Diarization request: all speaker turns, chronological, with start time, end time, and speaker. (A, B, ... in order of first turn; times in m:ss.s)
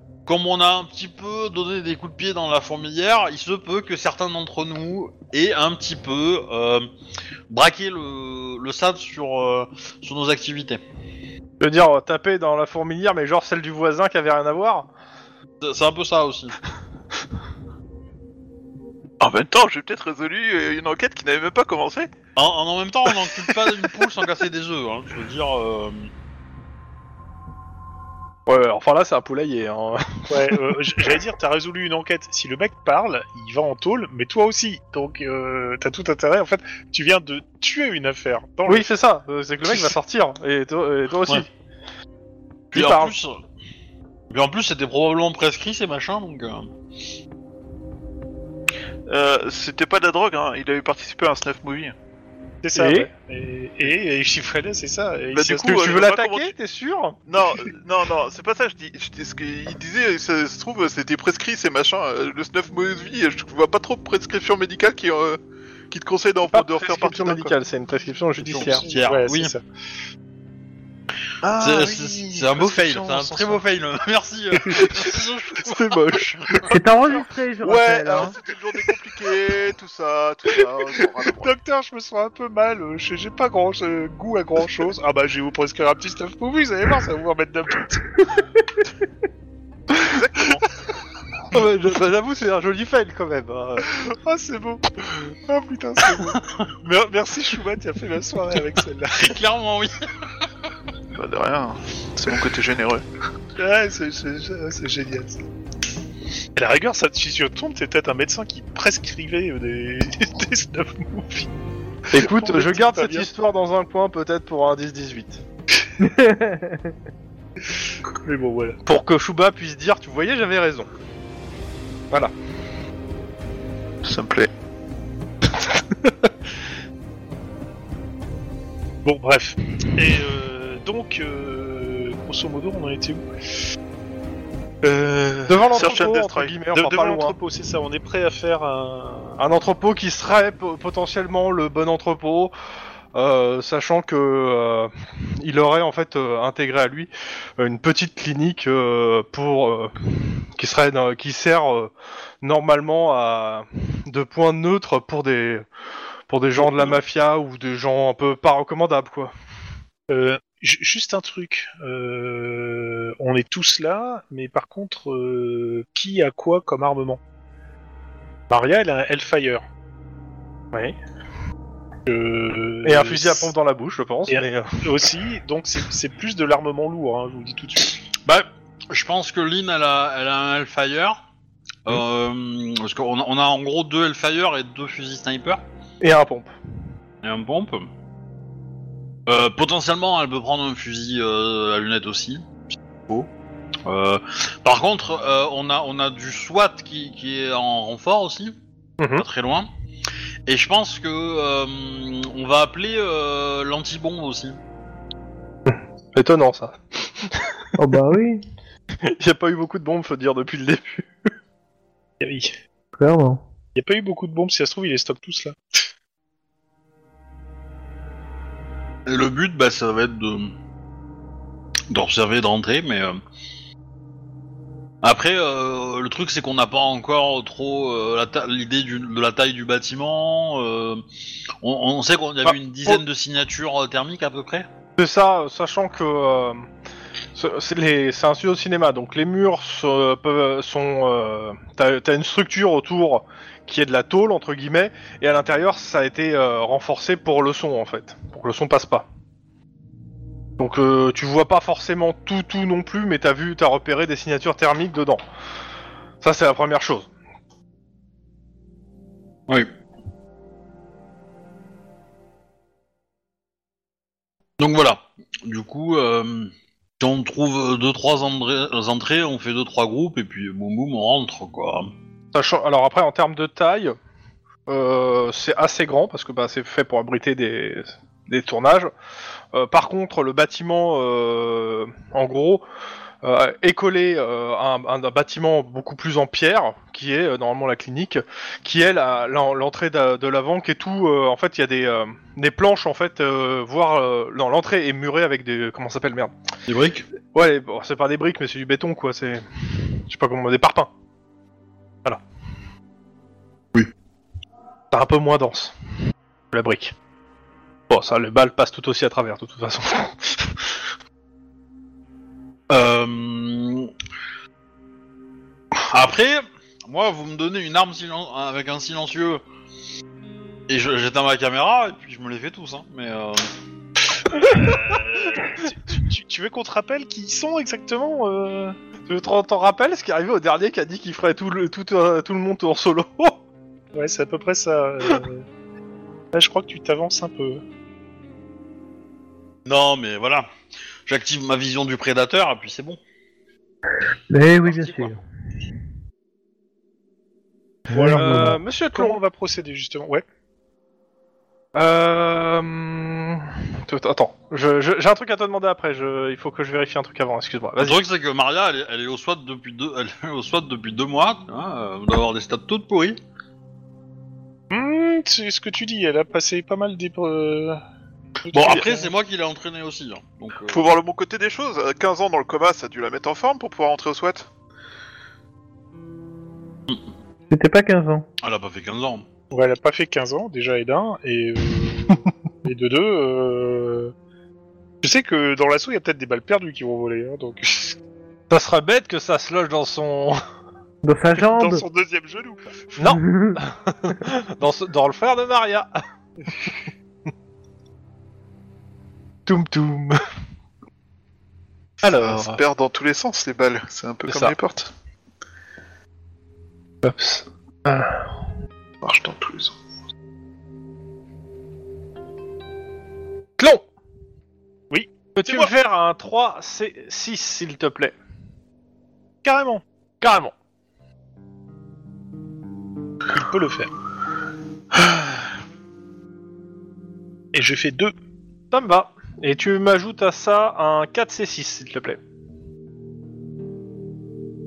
0:00.2-0:06.9 A
0:07.5-0:10.8 A
0:11.6-0:14.9 B
0:15.6-0:16.6 A
0:19.2-0:22.1 C
0:22.4-0:26.1 A
0:28.5-0:31.2 B
0:30.3-0:38.9 D
0:38.6-0:41.5 B
0:42.7-0:43.4 A
0:42.7-0:43.1 B
0:44.3-0:46.7 A
0:49.1-0:51.9 C
0:52.6-0:56.1 D
0:52.7-0:53.1 B
0:55.3-0:56.5 C
0:55.6-0:57.2 B
0:57.3-1:05.4 C
1:05.9-1:07.5 C
1:06.5-1:08.8 B
1:08.5-1:09.6 D
1:08.6-1:09.5 A
1:11.4-1:13.6 C
1:11.6-1:15.8 A
1:15.6-1:16.4 B
1:16.7-1:18.3 E
1:17.1-1:21.5 C
1:21.2-1:28.2 D
1:30.0-1:30.8 C
1:31.5-1:33.9 B
1:34.0-1:39.4 D
1:39.2-1:39.9 A
1:41.1-1:43.0 C
1:43.6-1:45.4 D
1:46.6-1:51.5 D
1:52.1-1:55.4 B
1:52.1-1:53.3 D
1:56.0-1:56.9 E
1:58.1-1:58.8 D
1:58.8-2:00.9 B
2:04.0-2:04.5 C
2:05.5-2:06.3 B
2:09.0-2:13.2 D
2:14.8-2:16.6 C
2:15.5-2:17.4 B
2:15.7-2:16.1 D
2:16.7-2:19.4 D
2:19.4-2:22.5 B
2:23.1-2:35.6 B
2:36.3-2:39.3 B
2:36.6-2:37.0 D
2:40.1-2:47.2 D
2:48.5-2:49.6 D
2:52.1-2:53.5 D
2:52.8-2:55.0 B
2:54.3-2:58.0 D
2:58.2-3:01.2 A
3:01.8-3:05.6 A
3:06.0-3:06.5 B
3:07.2-3:07.9 A
3:09.3-3:12.5 A
3:13.8-3:18.5 A
3:19.0-3:19.2 B
3:19.1-3:19.7 A
3:20.4-3:24.6 A
3:25.6-3:27.6 B
3:27.8-3:28.4 E
3:29.0-3:31.1 B
3:32.2-3:32.5 D
3:33.0-3:33.4 E
3:33.7-3:35.8 D
3:39.0-3:40.5 A
3:41.9-3:43.2 A
3:45.0-3:51.0 A
3:51.6-3:54.6 A
3:52.4-3:53.0 B
3:55.0-3:56.6 B
3:57.3-4:09.1 B
4:10.6-4:15.2 B
4:16.2-4:17.1 B
4:24.6-4:31.9 A
4:32.3-4:34.0 B
4:34.7-4:38.9 B
4:39.5-4:42.6 B
4:43.2-4:56.3 B
4:56.7-4:57.0 A
4:57.3-5:00.9 B
5:04.9-5:05.7 B
5:06.5-5:06.9 B
5:07.9-5:10.7 B
5:12.7-5:13.9 A
5:15.9-5:19.4 A
5:20.7-5:23.4 A
5:24.4-5:25.0 A
5:24.6-5:28.8 D
5:29.1-5:33.4 B
5:33.9-5:35.4 D
5:36.3-5:37.6 D
5:39.6-5:40.5 A
5:41.0-5:43.0 A
5:44.3-5:45.2 E
5:44.6-5:45.1 A
5:47.9-5:48.6 E
5:47.9-5:50.2 D
5:48.1-5:49.2 B
5:51.7-5:58.0 B
5:57.8-6:03.2 A
6:04.7-6:07.8 D
6:08.4-6:09.1 D
6:08.5-6:10.8 A
6:10.7-6:14.5 C
6:17.5-6:18.2 E
6:18.4-6:19.2 A
6:19.5-6:24.1 D
6:25.0-6:27.9 D
6:28.5-6:30.4 B
6:31.0-6:31.8 E
6:31.4-6:33.0 D
6:33.0-6:35.9 B
6:33.1-6:33.6 E
6:39.4-6:40.2 B
6:42.0-6:42.6 B
6:42.2-6:44.9 C
6:44.3-6:44.6 B
6:47.0-6:48.3 B
6:49.0-6:49.7 C
6:53.6-6:53.9 B
6:54.9-6:55.7 D
6:55.4-6:58.1 B
6:59.4-6:59.8 D
7:00.2-7:00.5 B
7:03.3-7:03.9 D
7:07.5-7:08.1 D
7:08.7-7:12.2 B